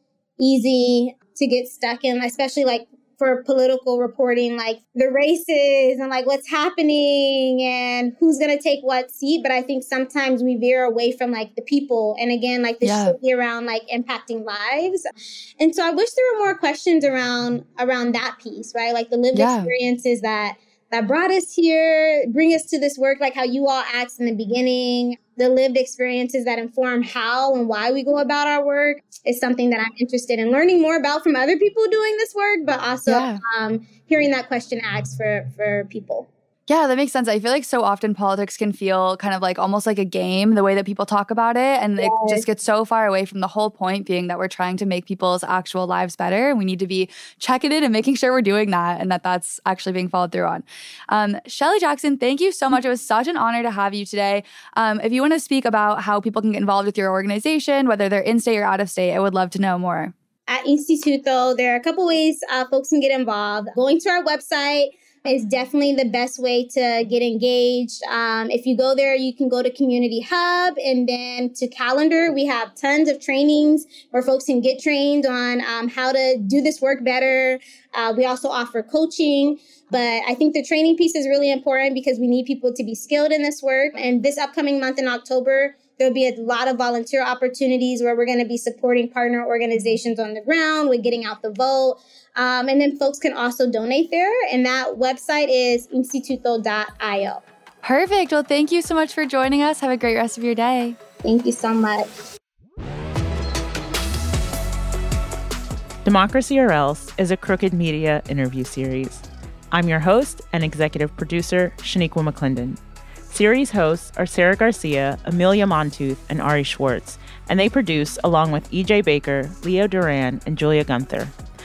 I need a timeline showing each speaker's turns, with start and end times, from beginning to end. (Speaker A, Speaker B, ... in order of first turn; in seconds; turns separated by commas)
Speaker A: 0.4-15.0, Speaker B: 12.8-13.2, Speaker A: 15.6-36.3, Speaker B: 19.3-19.7, Speaker B: 33.1-33.4, Speaker B: 36.7-60.1, Speaker A: 42.0-42.4, Speaker A: 60.5-97.4, Speaker B: 97.8-101.0, Speaker A: 101.2-102.1, Speaker C: 106.0-121.3